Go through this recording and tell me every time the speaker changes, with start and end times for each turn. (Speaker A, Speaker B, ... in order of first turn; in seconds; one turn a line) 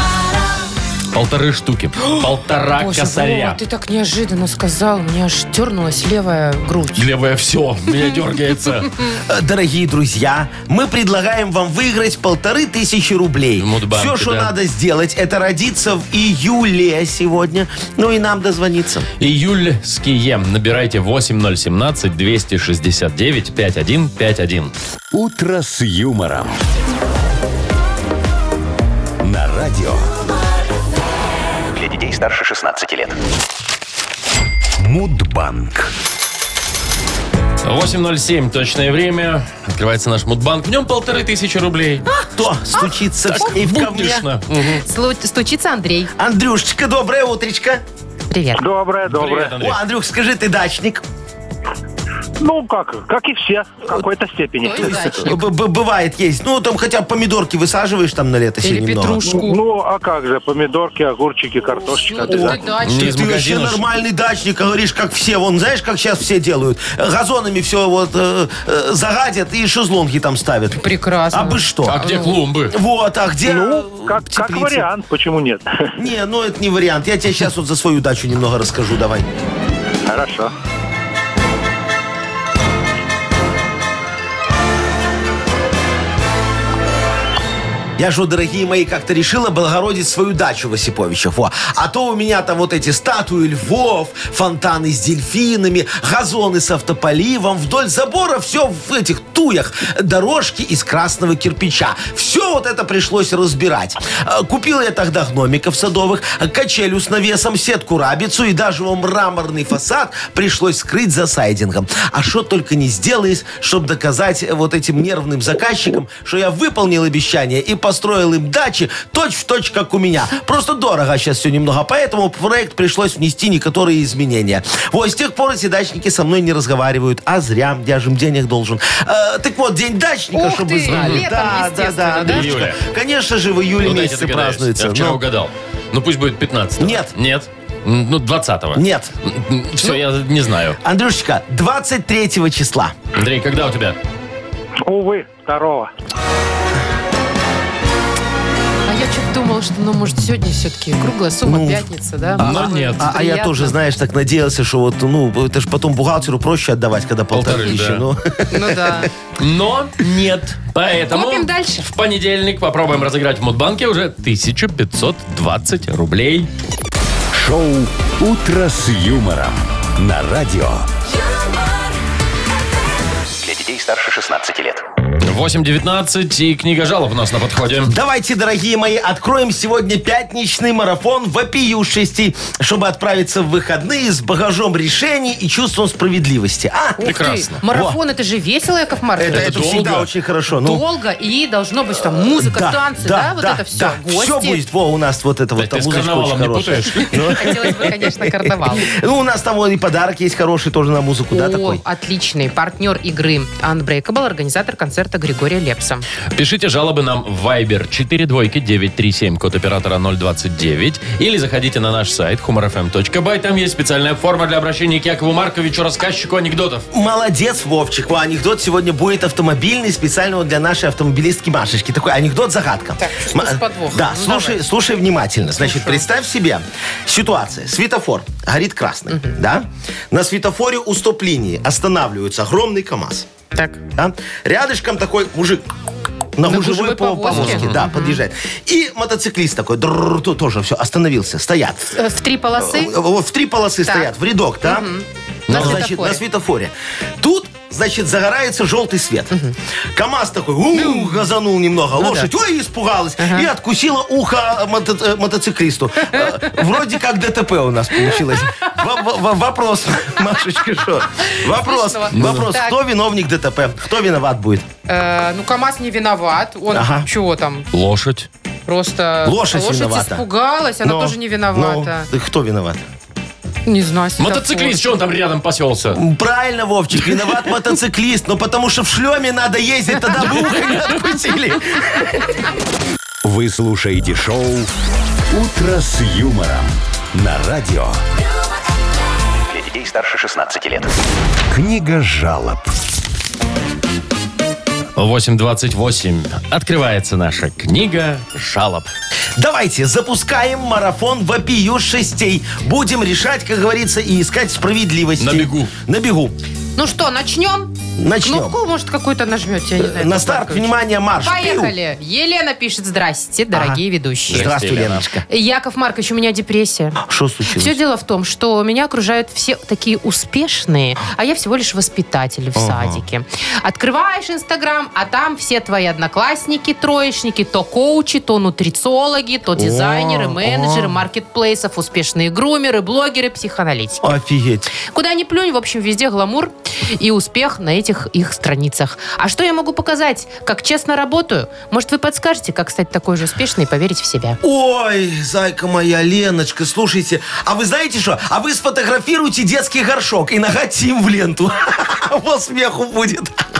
Speaker A: 1.1-3.6
Speaker B: 2.8-7.1
Speaker A: 7.0-8.9
Speaker C: 9.2-19.1
Speaker A: 13.6-14.5
Speaker A: 19.2-24.7
Speaker D: 25.1-26.6
Speaker D: 29.2-30.1
Speaker E: 31.7-33.2
Speaker D: 34.8-35.9
Speaker A: 37.6-42.1
Speaker B: 42.1-43.6
Speaker C: 42.4-44.3
Speaker A: 43.3-44.8
Speaker B: 44.6-46.1
Speaker C: 46.2-47.8
Speaker B: 48.3-48.6
Speaker F: 48.5-49.6
Speaker A: 49.0-49.8
Speaker C: 49.6-51.0
Speaker F: 52.4-55.2
Speaker B: 54.6-55.5
Speaker C: 54.8-59.2
Speaker B: 58.6-59.6
Speaker F: 59.3-62.6
Speaker B: 62.1-63.2
Speaker A: 62.8-63.8
Speaker C: 62.9-74.9
Speaker B: 70.8-72.3
Speaker A: 71.8-72.8
Speaker F: 73.5-75.9
Speaker C: 76.0-79.3
Speaker F: 80.1-80.5
Speaker C: 88.0-135.2
Speaker B: 130.3-132.5
Speaker A: 130.9-131.2
Speaker A: 132.2-132.8
Speaker A: 133.8-140.8
Speaker C: 136.8-137.1
Speaker C: 138.7-139.1
Speaker C: 140.8-142.9
Speaker A: 143.1-144.0
Speaker F: 144.8-145.9
Speaker B: 148.9-153.7
Speaker C: 151.4-159.1
Speaker A: 152.4-153.1
Speaker A: 157.3-158.0
Speaker B: 158.5-159.1
Speaker A: 159.4-166.5
Speaker B: 161.1-161.9
Speaker D: 167.3-170.9
Speaker E: 173.4-174.8
Speaker A: 175.2-177.9
Speaker C: 177.8-187.0
Speaker B: 187.0-189.6
Speaker A: 187.0-187.6
Speaker C: 187.6-188.0
Speaker C: 189.2-190.8
Speaker A: 189.2-190.1
Speaker B: 190.5-194.6
Speaker C: 192.0-201.8
Speaker A: 195.6-197.4
Speaker B: 197.3-198.9
Speaker B: 201.3-206.1
Speaker A: 206.3-216.8
Speaker C: 216.9-233.3
Speaker B: 223.0-224.6
Speaker B: 225.5-226.0
Speaker B: 229.1-229.3
Speaker B: 233.5-233.8
Speaker C: 233.9-235.7
Speaker C: 236.3-241.9
Speaker B: 236.4-238.2
Speaker A: 237.3-237.8
Speaker B: 241.9-242.9
Speaker C: 242.6-244.9
Speaker B: 243.8-244.1
Speaker B: 244.6-246.2
Speaker A: 245.5-245.8
Speaker C: 245.5-249.4
Speaker C: 249.9-264.7
Speaker B: 250.7-251.3
Speaker B: 252.0-252.3
Speaker B: 253.2-253.5
Speaker B: 256.1-256.6
Speaker B: 258.0-258.7
Speaker B: 261.2-262.8
Speaker A: 262.1-262.4
Speaker B: 264.9-267.7
Speaker C: 266.7-267.1
Speaker A: 267.7-268.3
Speaker B: 268.7-272.1
Speaker C: 269.2-270.2
Speaker C: 270.8-272.8
Speaker B: 273.6-274.8
Speaker A: 274.2-276.0
Speaker C: 275.9-282.4
Speaker A: 280.3-280.9
Speaker D: 283.2-284.7
Speaker D: 285.3-288.0
Speaker E: 289.5-290.9
Speaker D: 291.5-292.7
Speaker A: 294.9-298.9
Speaker C: 299.4-306.4
Speaker A: 305.2-305.7
Speaker B: 306.8-314.5
Speaker C: 307.9-308.6
Speaker C: 309.8-311.7
Speaker C: 313.5-315.3
Speaker A: 314.3-315.0
Speaker B: 315.3-334.1
Speaker C: 317.0-317.8
Speaker C: 322.6-323.0
Speaker C: 329.6-331.0
Speaker C: 334.0-334.7
Speaker B: 334.9-344.4
Speaker C: 344.4-353.4